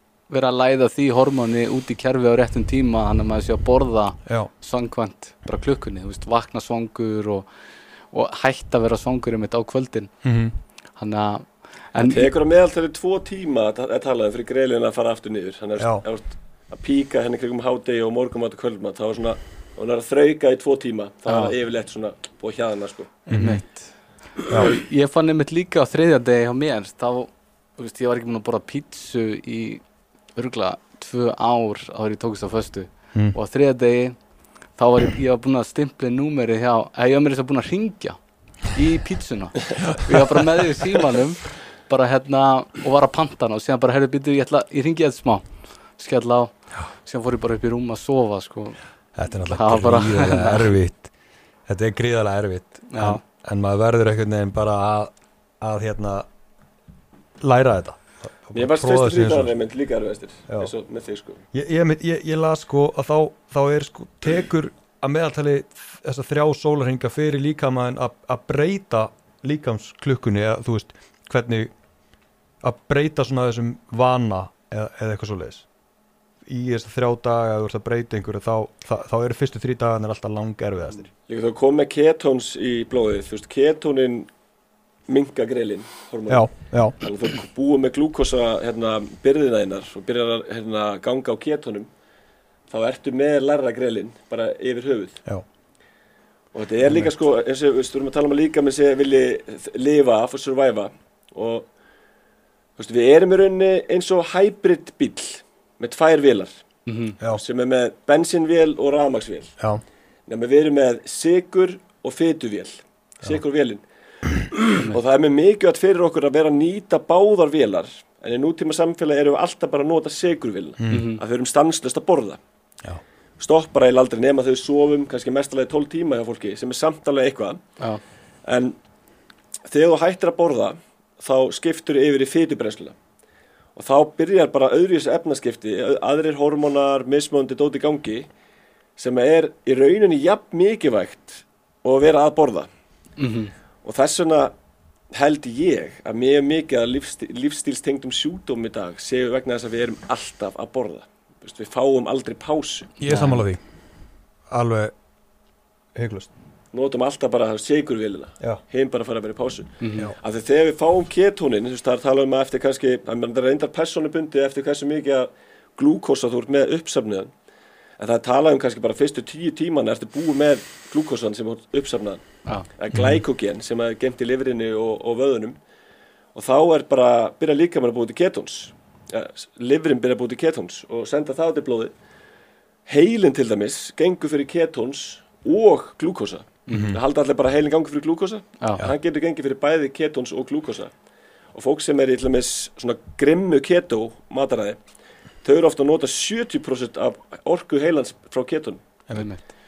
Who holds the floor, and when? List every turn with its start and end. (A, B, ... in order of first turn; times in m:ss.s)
0:00.3-0:07.5 A
0:04.3-0:04.5 B
0:08.1-0:10.1 A
0:10.2-0:10.6 B
0:11.0-0:12.3 A
0:12.0-0:23.1 C
0:15.8-0:16.0 B
0:21.3-0:21.5 A
0:23.3-0:23.9 A
0:23.3-0:23.6 B
0:24.5-0:29.8 A
0:30.4-0:34.2 A
0:34.8-0:38.2 A
0:38.7-0:45.4 A
0:46.0-0:48.8 A
0:49.2-0:51.1 B
0:49.4-0:50.8 A
0:51.7-0:56.3 B
0:52.9-0:53.2 A
0:57.4-0:59.5 B
0:58.5-1:01.4 C
1:01.5-1:11.7 B
1:12.6-1:15.7 B
1:16.5-1:21.1 B
1:21.3-1:24.3 C
1:25.1-1:31.9 C
1:26.3-1:27.0 B
1:32.7-1:35.2 C
1:36.5-1:41.7 C
1:42.8-1:46.6 C
1:46.9-1:47.2 A
1:47.3-1:49.6 C
1:50.3-1:53.8 C
1:54.5-2:02.4 C
2:00.8-2:01.1 B
2:00.9-2:01.2 A
2:03.4-2:07.6 C
2:08.5-2:08.8 C
2:09.7-2:13.0 C
2:13.8-2:18.3 C
2:19.0-2:22.7 C
2:23.2-2:23.5 A
2:23.8-2:24.5 C
2:25.1-2:32.9 C
2:33.0-2:33.6 B
2:33.0-2:33.5 A
2:34.5-2:34.9 B
2:36.0-2:36.3 B
2:36.7-2:47.3 C
2:39.8-2:40.1 A
2:48.0-2:52.2 C
2:52.8-2:55.6 C
2:52.9-2:53.2 B
2:56.4-3:01.9 C
3:02.9-3:10.9 C
3:06.7-3:07.0 B
3:08.6-3:08.9 A
3:11.5-3:14.8 C
3:15.4-3:18.8 C
3:19.1-3:19.5 A